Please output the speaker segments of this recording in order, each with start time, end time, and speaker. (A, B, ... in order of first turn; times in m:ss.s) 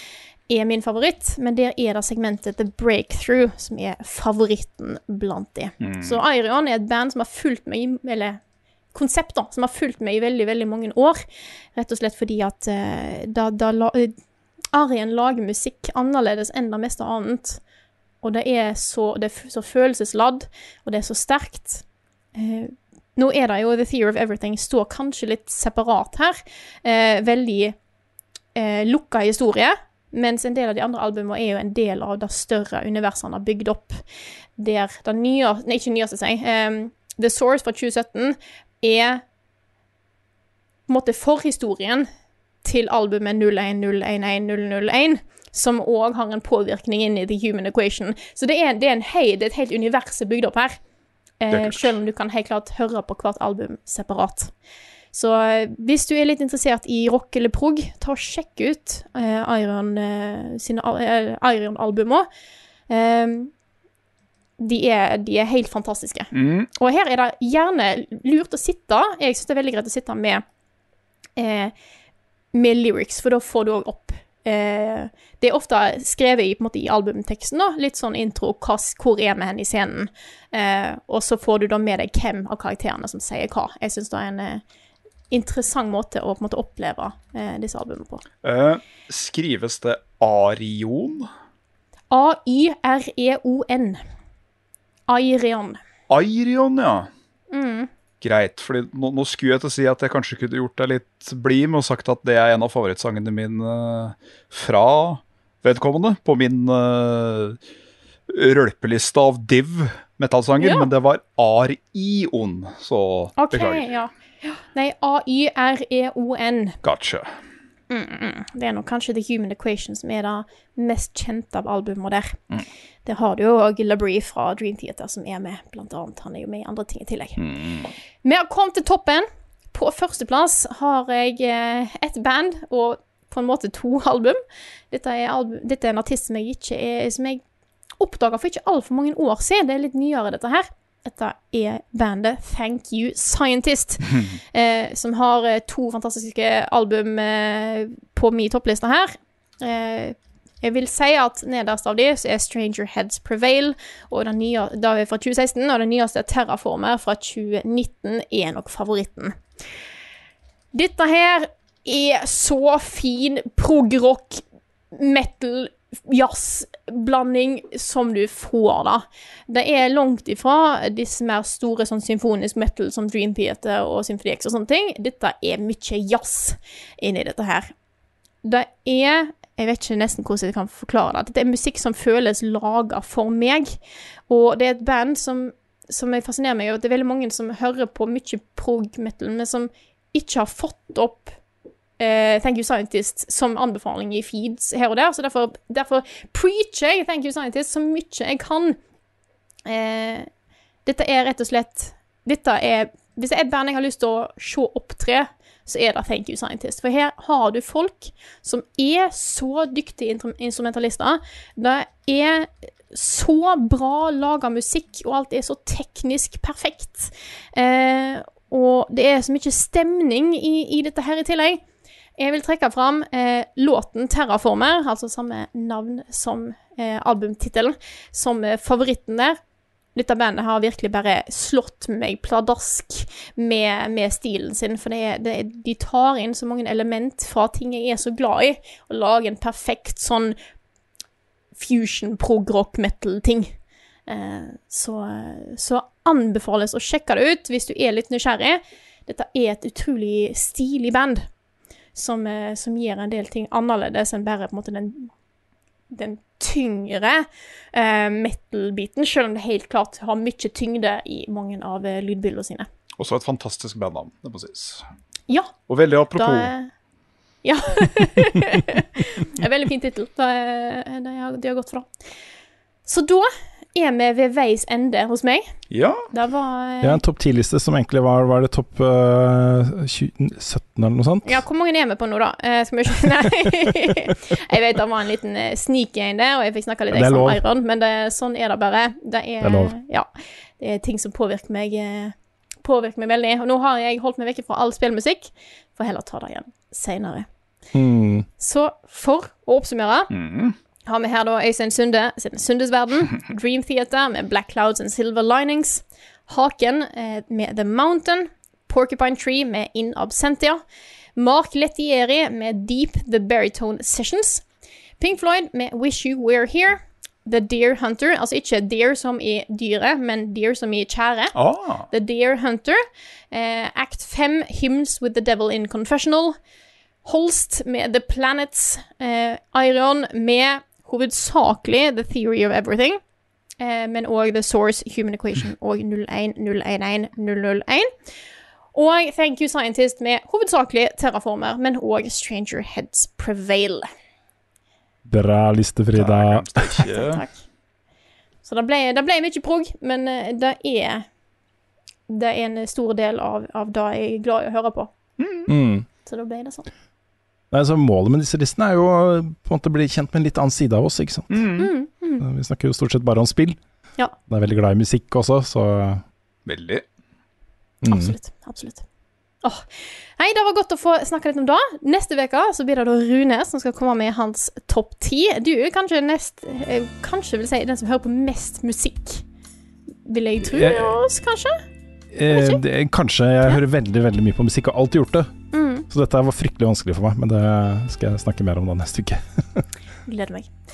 0:00.5-0:08.4 A
0:05.8-0:06.2 B
0:08.9-0:11.2 A
0:11.7-0:14.1 A
0:14.7-0:17.6 A
0:18.2-0:27.7 A
0:28.5-0:34.0 A
0:34.6-0:39.2 A
0:40.9-0:42.1 A
0:42.6-0:50.8 A
0:51.4-0:54.5 A
0:51.5-0:52.0 B
0:55.1-1:02.3 A
1:02.9-1:03.5 A
1:04.6-1:10.4 A
1:06.3-1:06.7 B
1:11.4-1:11.7 A
1:12.5-1:24.6 A
1:25.3-1:28.2 A
1:28.4-1:31.3 B
1:32.1-1:34.0 A
1:35.1-1:35.8 A
1:36.1-1:37.1 B
1:37.5-1:37.9 A
1:38.2-1:47.6 B
1:48.3-1:53.9 B
1:50.6-1:50.9 A
1:53.4-1:56.8 A
1:56.8-1:57.3 B
1:57.9-2:02.4 A
2:03.0-2:07.4 A
2:07.4-2:07.9 B
2:08.2-2:14.4 A
2:14.9-2:17.4 A
2:18.0-2:39.3 A
2:40.7-2:44.4 A
2:44.9-2:57.7 A
2:58.4-3:03.8 A
3:04.3-3:11.3 A
3:12.0-3:18.8 A
3:19.6-3:20.3 A
3:20.8-3:41.6 A
3:42.2-3:49.4 A
3:50.0-4:00.3 A
4:01.5-4:03.5 A
4:04.1-4:11.2 A
4:11.9-4:15.1 A
4:15.9-4:22.7 A
4:23.0-4:24.8 B
4:25.7-4:26.5 B
4:26.1-4:26.7 A
4:27.4-4:31.9 A
4:32.8-4:35.5 A
4:35.7-4:36.1 B
4:36.1-4:37.0 A
4:36.8-4:41.4 C
4:41.2-4:50.1 A
4:46.9-4:47.4 C
4:49.4-4:49.7 C
4:50.6-4:57.2 A
4:57.7-4:58.3 C
4:58.4-5:00.1 A
5:00.1-5:00.5 B
5:00.8-5:10.6 A
5:11.2-5:14.4 A
5:15.0-5:21.3 A
5:21.3-5:21.9 B
5:21.9-5:22.8 A
5:23.3-5:26.3 A
5:27.0-5:33.0 A
5:33.6-5:37.9 A
5:38.7-5:43.9 A
5:45.0-5:46.8 C
5:45.9-5:47.2 B
5:46.9-5:47.4 A
5:48.4-5:51.0 A
5:52.1-5:54.9 A
5:55.2-5:55.5 B
5:55.5-5:55.8 C
5:56.0-5:56.7 A
5:57.5-6:01.5 C
6:01.3-6:01.7 B
6:01.6-6:02.2 A
6:02.2-6:03.6 C
6:04.3-6:06.0 C
6:06.4-6:06.8 B
6:07.8-6:08.1 C
6:07.9-6:08.8 A
6:10.2-6:19.2 A
6:20.0-6:21.6 A
6:20.4-6:21.0 C
6:22.1-6:25.3 C
6:22.3-6:22.6 A
6:25.5-6:25.9 A
6:25.9-6:29.6 C
6:30.0-6:30.5 A